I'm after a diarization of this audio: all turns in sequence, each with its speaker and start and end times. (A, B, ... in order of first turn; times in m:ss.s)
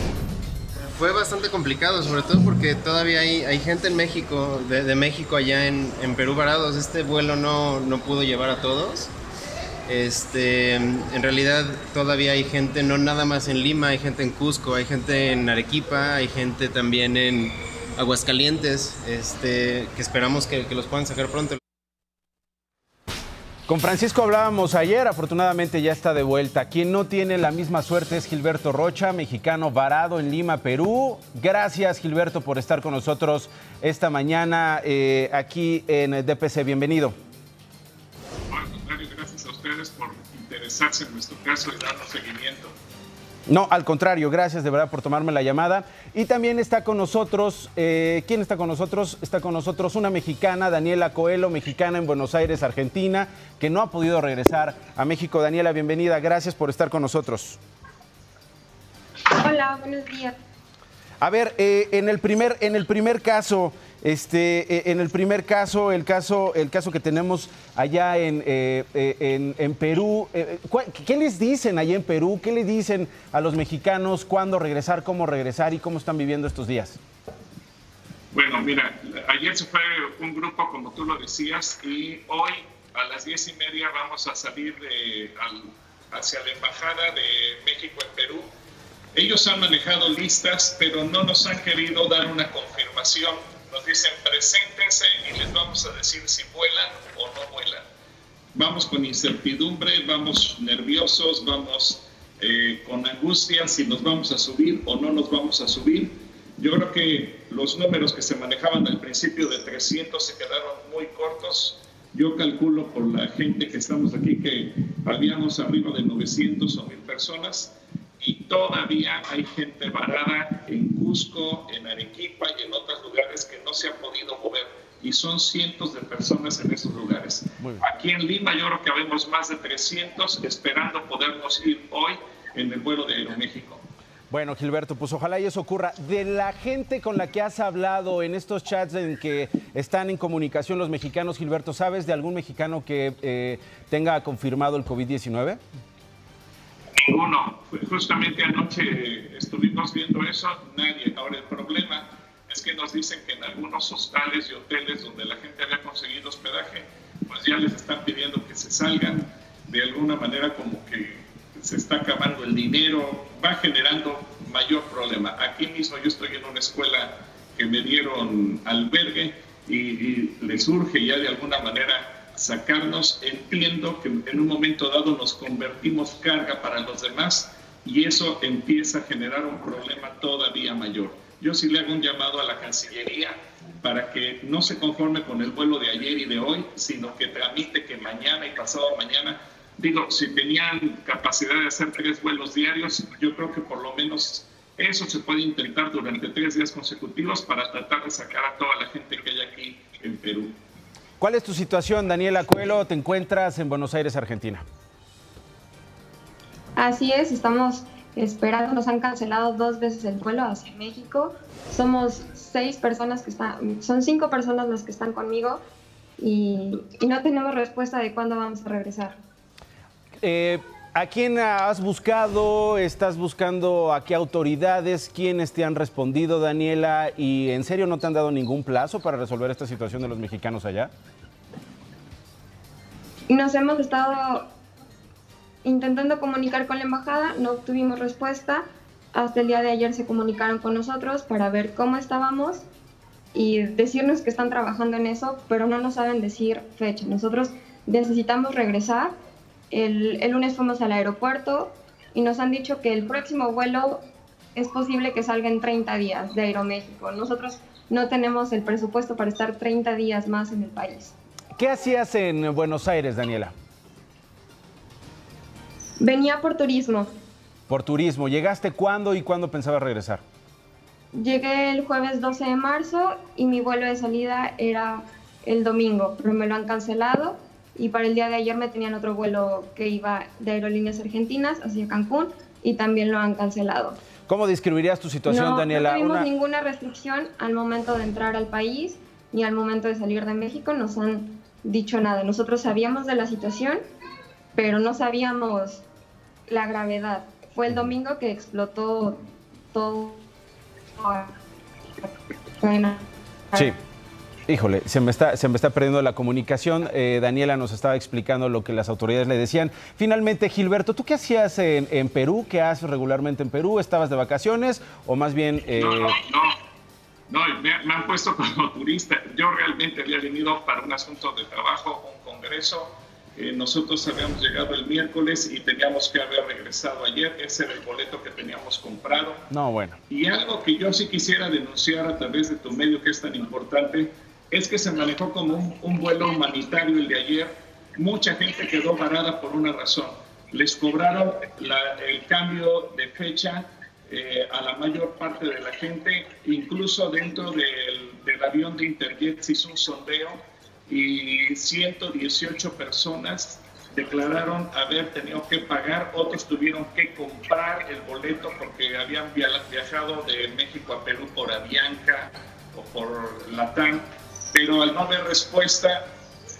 0:00.9-0:09.1 A
0:09.9-0:21.6 A
0:23.7-0:37.1 B
0:38.5-0:42.7 C
0:43.5-0:57.6 B
0:59.3-1:00.4 D
1:01.2-1:17.0 B
1:18.3-1:28.5 C
1:29.1-1:37.8 C
1:38.6-2:13.8 C
2:14.3-2:25.6 B
2:27.0-3:20.5 C
3:21.2-3:24.6 B
3:26.8-3:35.6 D
3:36.2-3:39.2 D
3:40.2-3:50.9 B
3:53.3-3:54.5 D
3:55.6-4:02.6 D
4:03.3-4:09.1 D
4:09.7-4:14.0 D
4:14.6-4:21.1 D
4:21.6-4:23.5 B
4:26.0-4:27.1 D
4:27.7-4:30.2 B
4:31.1-4:44.0 D
4:44.3-4:46.3 B
4:45.3-4:53.8 D
4:54.5-4:55.8 D
4:56.5-4:59.2 D
4:59.7-5:00.2 D
5:01.0-5:01.3 D
5:02.0-5:03.7 D
5:04.5-5:16.2 B
5:15.8-5:16.5 C
5:17.3-5:29.4 C
5:29.5-5:30.0 B
5:30.1-6:06.0 C